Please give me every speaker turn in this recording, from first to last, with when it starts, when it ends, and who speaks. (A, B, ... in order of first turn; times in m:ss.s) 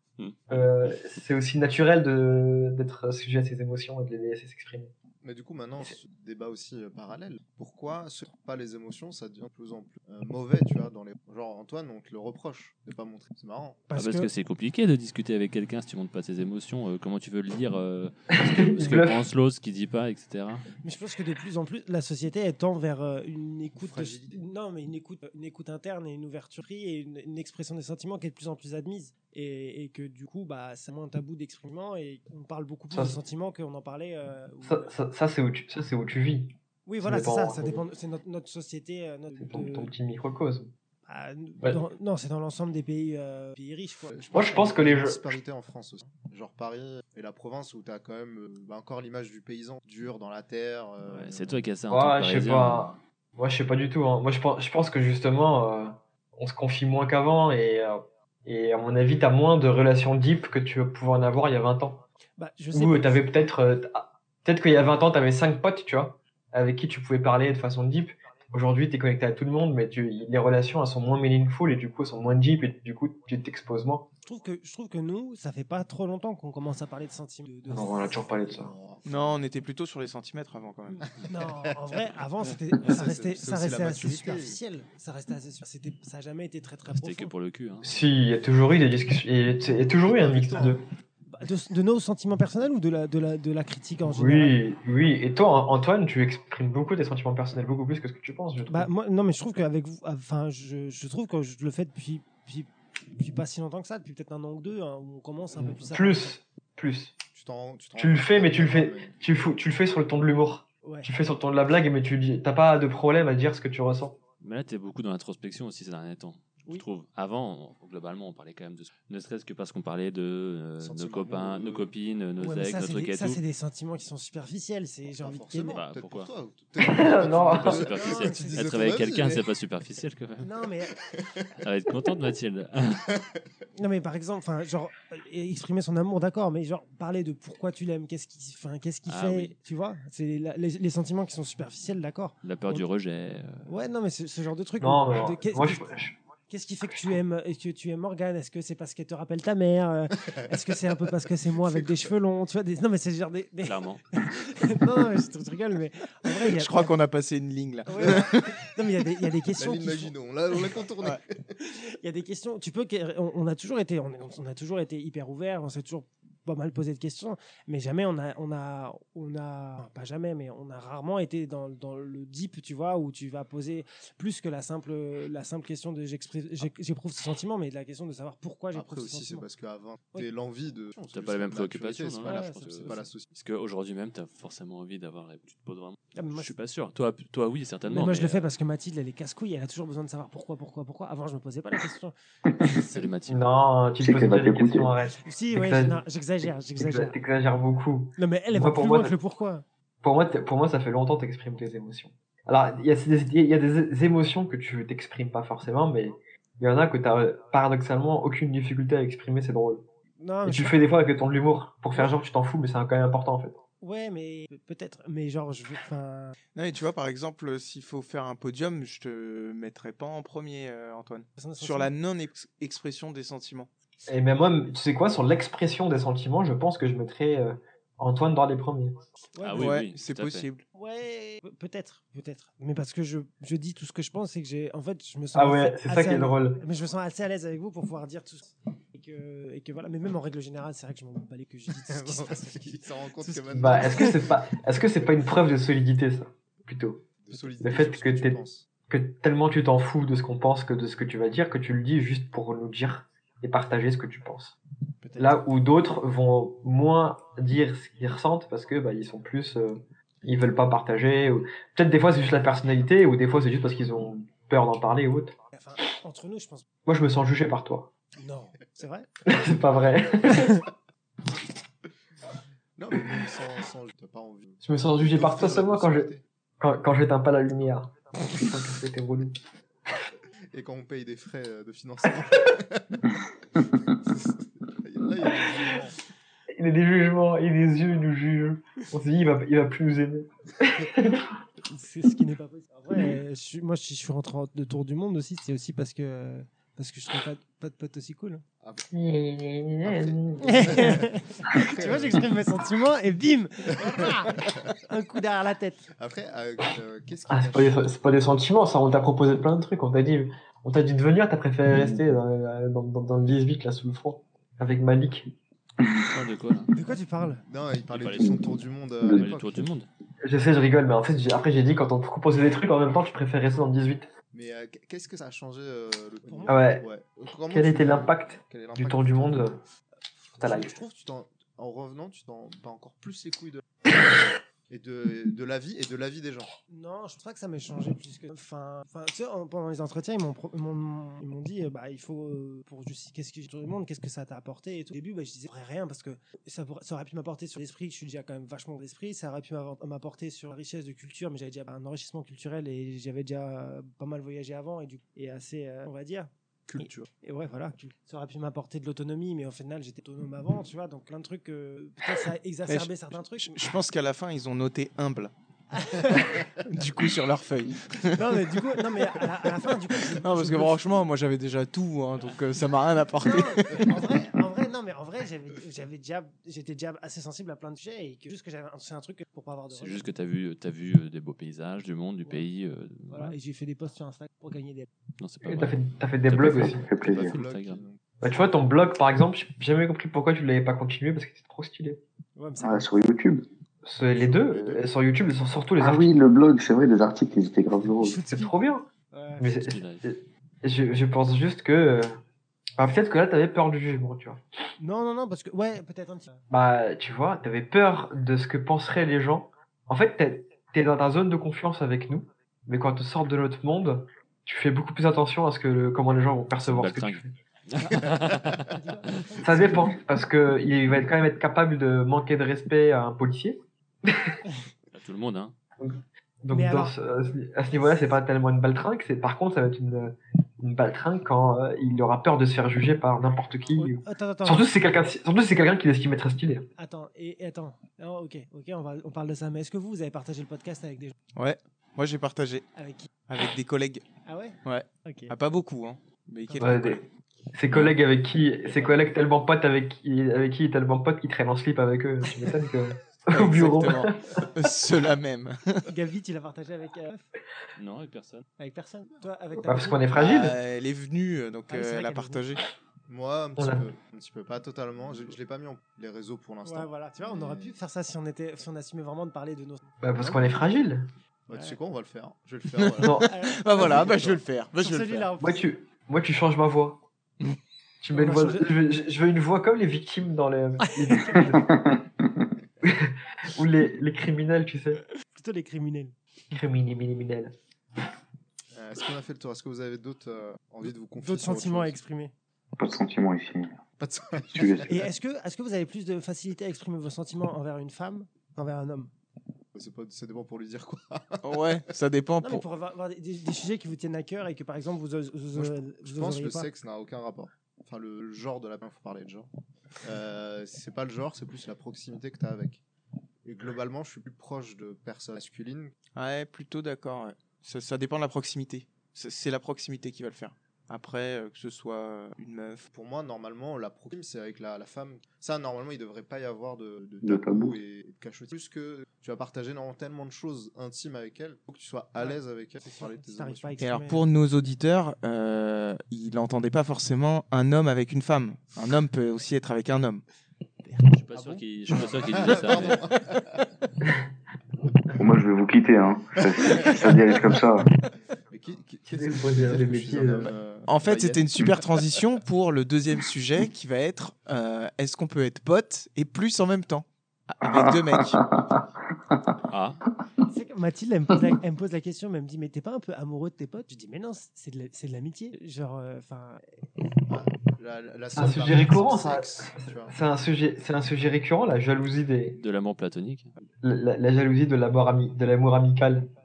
0:00.2-0:00.6 A
0:00.5-0:04.9 B
0:05.2-0:13.8 C
0:13.9-0:14.3 D
0:14.0-0:20.7 A
0:18.4-0:19.2 B
0:20.8-0:34.9 D
0:23.8-0:24.4 C
0:32.9-0:33.2 B
0:34.6-0:37.8 B
0:36.8-0:39.9 D
0:39.4-0:40.7 B
0:41.1-0:44.2 D
0:44.1-0:51.6 C
0:44.3-0:45.2 B
0:51.1-0:53.0 A
0:51.9-1:02.0 B
1:02.4-1:03.2 D
1:02.7-1:14.0 B
1:14.2-1:18.4 D
1:17.7-1:18.7 B
1:18.3-1:19.4 C
1:19.0-1:21.0 E
1:20.9-1:27.3 D
1:21.2-1:21.9 C
1:22.8-1:24.6 C
1:26.9-1:27.9 A
1:27.8-1:30.8 B
1:30.0-1:30.8 C
1:31.3-1:34.6 D
1:34.0-1:38.9 B
1:38.7-1:46.3 D
1:45.6-1:47.1 B
1:47.3-1:49.2 C
1:48.0-1:54.2 B
1:50.8-1:51.1 D
1:54.4-2:03.4 A
2:00.8-2:01.9 C
2:02.4-2:05.8 D
2:05.2-2:09.5 C
2:05.7-2:06.3 A
2:06.8-2:07.8 B
2:07.2-2:10.5 A
2:07.7-2:08.6 D
2:10.4-2:11.0 D
2:11.1-2:11.4 C
2:11.6-2:13.2 A
2:13.7-2:22.9 D
2:19.0-2:19.5 A
2:22.4-2:23.7 A
2:23.6-2:25.9 D
2:24.8-2:26.2 B
2:26.5-2:36.9 D
2:31.6-2:32.1 C
2:33.6-2:34.0 A
2:36.5-2:38.6 E
2:37.9-2:40.1 D
2:39.6-2:41.5 C
2:41.6-2:59.4 D
2:58.7-3:03.3 C
3:01.1-3:08.5 A
3:02.2-3:03.0 D
3:06.1-3:06.5 D
3:07.9-3:12.7 D
3:12.7-3:13.5 A
3:13.3-3:16.0 B
3:14.0-3:14.9 F
3:15.2-3:17.1 D
3:16.8-3:19.1 B
3:18.2-3:19.6 D
3:20.0-3:29.8 B
3:30.2-3:30.8 D
3:30.4-3:33.6 B
3:33.8-3:36.4 D
3:36.5-3:43.7 E
3:41.4-3:41.9 D
3:44.1-3:49.0 B
3:49.3-3:49.8 D
3:49.4-3:50.4 A
3:49.6-3:50.6 E
3:50.7-4:04.2 D
3:55.3-3:56.6 B
4:01.8-4:04.4 C
4:03.5-4:07.0 B
4:07.2-4:08.7 C
4:07.6-4:08.4 B
4:08.9-4:14.6 B
4:15.0-4:15.4 C
4:15.2-4:25.3 B
4:25.5-4:26.6 D
4:26.8-4:27.9 B
4:28.2-4:29.1 D
4:29.2-4:30.7 B
4:32.8-4:36.2 C
4:34.6-4:39.4 B
4:40.5-4:43.1 C
4:43.8-4:46.0 C
4:46.6-4:51.3 B
4:51.7-4:58.4 D
4:58.6-4:58.9 C
4:58.9-5:01.0 B
4:59.8-5:02.3 C
5:00.4-5:05.8 D
5:03.8-5:04.7 C
5:06.0-5:07.9 C
5:07.3-5:15.3 B
5:15.8-5:16.1 F
5:16.1-5:16.7 A
5:16.7-5:17.4 D
5:17.5-5:19.6 C
5:17.9-5:19.9 A
5:19.0-5:19.3 F
5:20.2-5:24.1 B
5:24.3-5:29.6 C
5:26.2-5:26.6 D
5:26.5-5:26.8 B
5:27.5-5:29.6 B
5:30.3-5:33.9 C
5:30.4-5:30.8 B
5:34.7-5:36.5 C
5:36.7-6:03.7 D
5:56.7-5:57.1 C
6:02.7-6:05.3 E
6:05.7-6:06.5 D
6:06.1-6:14.1 E
6:08.1-6:10.8 D
6:13.2-6:20.0 D
6:19.8-6:23.4 A
6:23.1-6:24.9 D
6:25.2-6:27.8 A
6:25.4-6:26.8 B
6:26.4-6:27.4 F
6:27.0-6:28.0 C
6:28.2-6:32.0 B
6:32.4-6:32.9 D
6:32.6-6:33.4 F
6:33.8-6:36.1 B
6:34.5-6:34.8 C
6:35.8-6:38.2 F
6:37.8-6:39.6 D
6:38.2-6:38.8 B
6:39.4-6:42.2 B
6:39.6-6:40.0 A
6:42.8-6:44.4 B
6:44.8-6:46.4 D
6:46.5-6:57.3 B
6:56.6-6:58.7 A
6:57.8-7:00.0 D
6:59.4-7:04.4 B
7:04.9-7:05.5 A
7:05.8-7:16.7 B
7:06.5-7:06.9 D
7:07.6-7:08.2 D
7:13.8-7:14.7 D
7:16.8-7:21.1 D
7:21.4-7:22.7 E
7:22.8-7:23.1 D
7:23.3-7:24.0 E
7:24.2-7:25.3 D
7:24.6-7:27.0 E
7:26.5-7:26.8 D
7:26.6-7:27.0 B
7:27.5-7:34.4 B
7:33.3-7:35.9 E
7:35.8-7:37.3 D
7:37.8-7:38.4 A
7:38.6-7:40.5 D
7:39.6-7:40.5 B
7:40.1-7:42.6 E
7:41.7-7:42.4 D
7:43.1-7:47.7 C
7:43.6-7:43.8 B
7:46.6-7:49.9 D
7:50.0-7:51.1 B
7:50.2-7:50.6 C
7:51.5-7:54.4 C
7:51.5-7:51.8 D
7:52.7-7:55.3 E
7:53.0-7:53.3 B
7:53.3-7:54.1 D
7:54.7-7:55.6 D
7:55.4-7:57.0 B
7:58.0-8:01.7 B
7:58.1-7:58.7 D
8:00.8-8:01.6 D
8:01.7-8:02.3 F
8:02.8-8:05.0 B
8:05.3-8:06.1 D
8:06.5-8:07.5 B
8:08.7-8:12.0 C
8:11.2-8:12.3 D
8:12.8-8:13.8 F
8:14.0-8:15.0 C
8:14.3-8:15.0 F
8:14.9-8:19.1 D
8:19.7-8:21.8 C
8:21.4-8:22.6 E
8:22.4-8:26.7 D
8:25.5-8:29.5 C
8:30.0-8:32.8 C
8:33.4-8:35.9 C
8:36.1-8:42.9 E
8:42.9-8:53.8 C
8:47.2-8:47.8 F
8:52.2-8:54.2 D
8:53.8-9:00.2 E
9:01.1-9:03.1 A
9:01.4-9:03.6 C
9:05.2-9:07.9 F
9:06.5-9:07.3 C
9:08.5-9:12.1 C
9:09.1-9:10.5 B
9:10.8-9:18.4 E
9:17.6-9:19.6 F
9:19.7-9:20.0 A
9:20.5-9:26.6 D
9:27.3-9:30.1 C
9:28.3-9:32.6 B
9:32.6-9:33.5 A
9:33.8-9:36.3 B